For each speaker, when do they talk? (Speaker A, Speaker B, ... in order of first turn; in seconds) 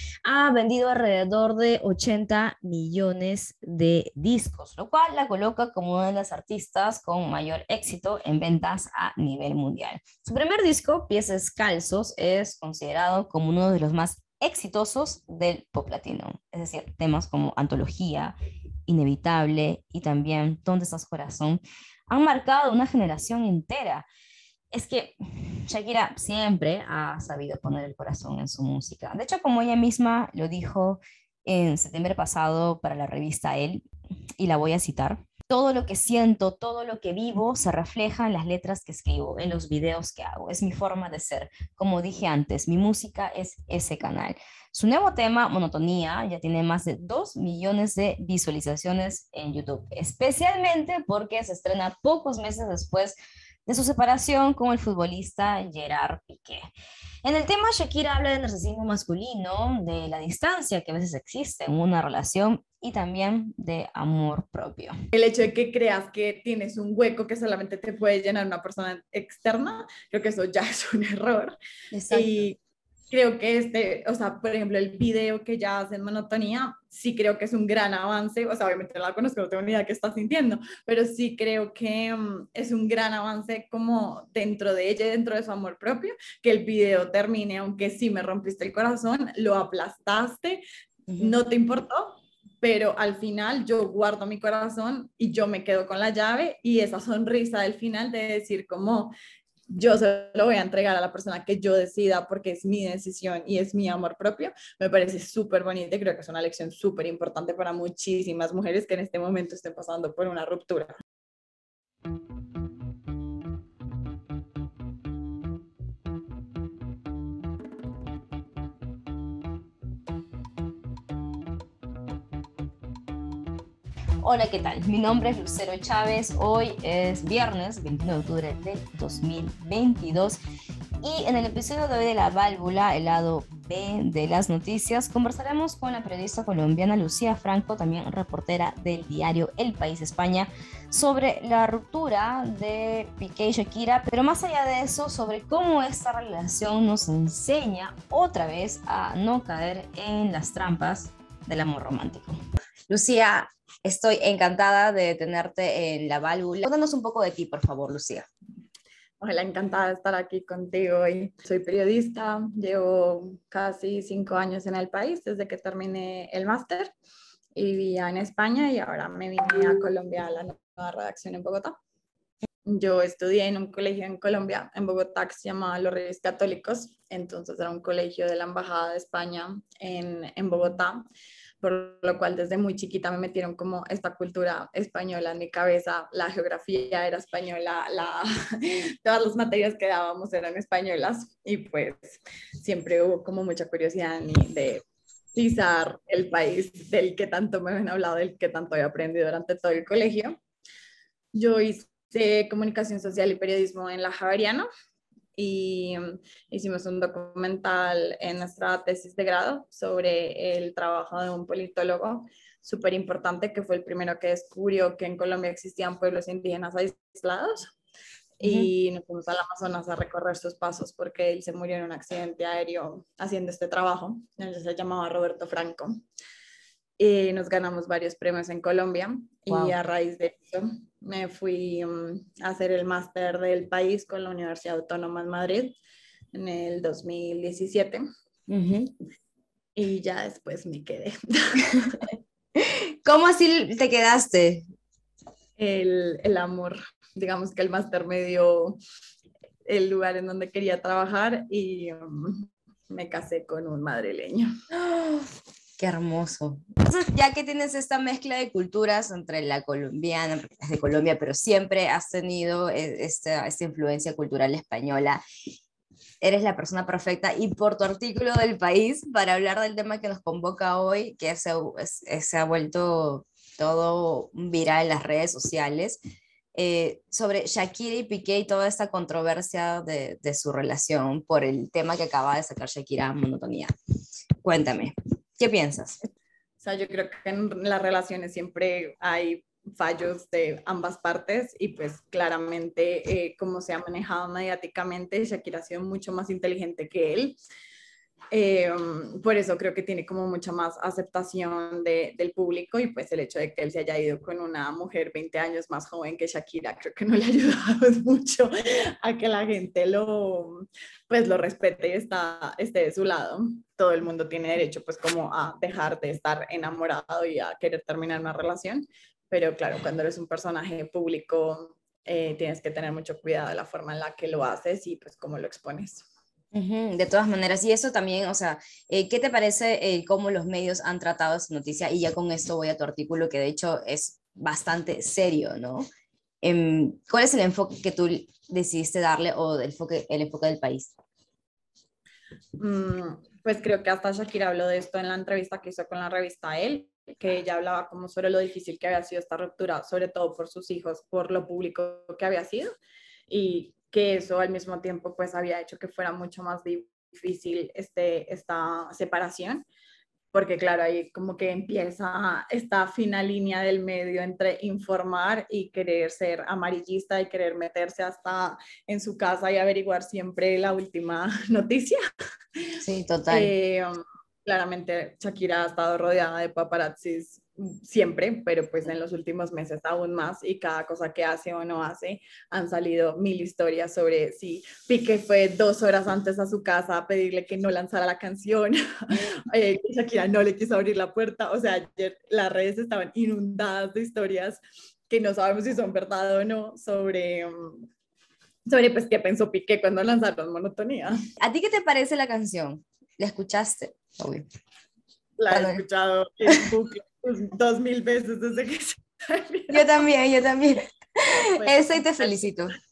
Speaker A: 0.2-18.4, 18.9-24.1, 24.7-33.9, 34.4-56.7, 57.2-64.9, 71.9-72.5, 91.1-91.4, 124.2-130.4, 131.0-158.3, 218.4-218.7, 229.5-229.8, 238.5-238.9, 242.6-244.7, 254.7-265.2, 266.2-276.0, 276.6-283.7, 284.4-286.0, 326.5-335.9, 336.4-340.9, 372.8-373.5, 401.4-404.4, 405.5-405.8, 409.7-412.8
Speaker B: 65.1-71.6, 72.1-72.6, 73.1-90.6, 91.2-99.1, 99.7-111.0, 159.2-166.9, 167.6-171.7, 172.7-181.0, 181.6-194.8, 195.3-200.4, 201.3-204.7, 205.3-217.7, 218.4-226.0, 227.0-235.8, 236.3-238.0, 239.8-242.1, 245.6-248.8, 249.7-254.5, 286.6-297.4, 298.3-326.1, 342.6-352.7, 353.3-359.7, 360.3-372.0, 373.3-397.9, 398.7-401.2, 405.4-409.9, 411.6-412.6